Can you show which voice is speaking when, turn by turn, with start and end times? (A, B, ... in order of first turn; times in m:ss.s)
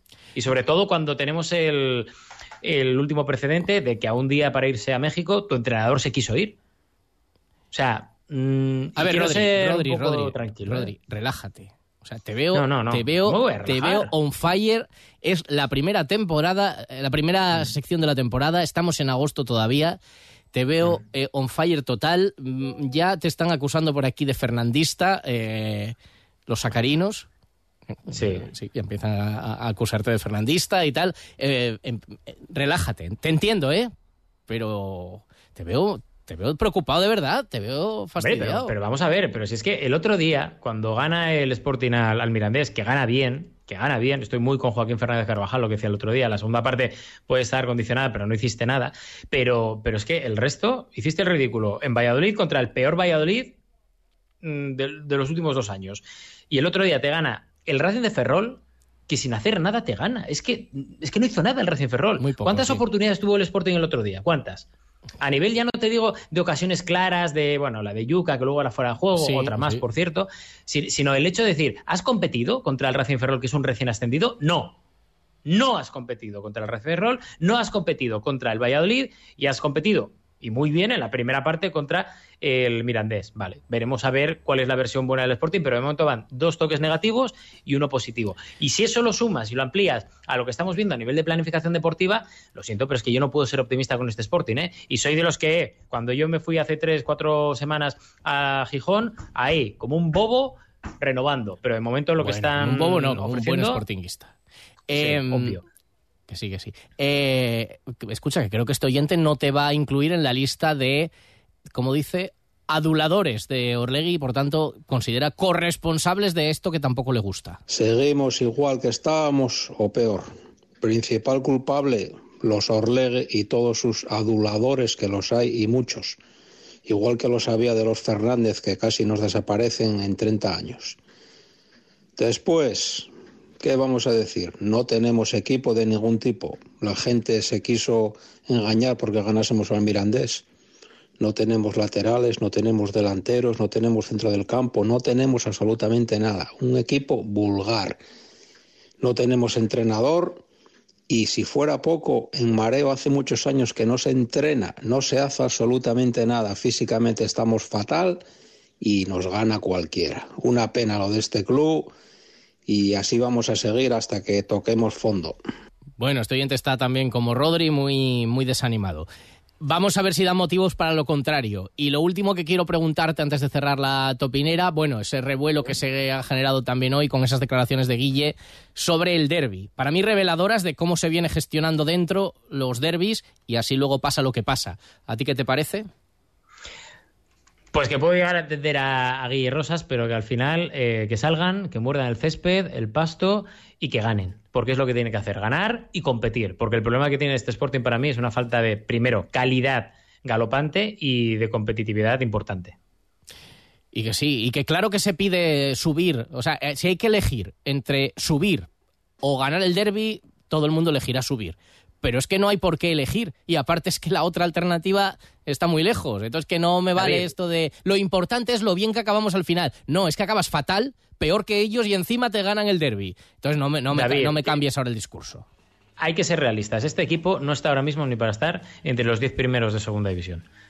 0:00.4-0:02.1 A
0:02.6-0:06.6 A
0:07.7-0:10.9 A
0:09.0-0:20.0 B
0:12.5-0:14.1 A
0:20.5-0:26.0 B
0:26.5-0:27.3 B
0:28.0-0:33.9 B
0:28.1-0:28.5 A
0:34.5-0:38.7 B
0:38.2-0:53.6 A
0:54.4-1:04.7 A
1:02.2-1:02.8 B
1:05.2-1:14.8 A
1:09.2-1:09.8 B
1:15.5-1:43.8 A
1:42.2-1:44.3 B
1:44.9-1:45.6 B
1:44.9-1:45.6 A
1:46.3-1:51.1 B
1:51.7-1:57.6 B
1:57.7-2:06.2 C
2:06.9-2:11.0 C
2:12.2-2:13.1 C
2:13.6-2:20.4 C
2:21.2-2:28.0 C
2:29.0-2:30.4 C
2:31.1-2:38.2 C
2:38.8-2:41.9 C
2:42.7-2:45.4 C
2:46.0-2:49.1 B
2:49.6-3:05.9 B
3:07.7-3:22.8 A
3:23.9-3:28.7 B
3:29.2-3:45.5 B
3:37.0-3:37.3 A
3:43.9-3:44.6 A
3:46.0-3:50.5 A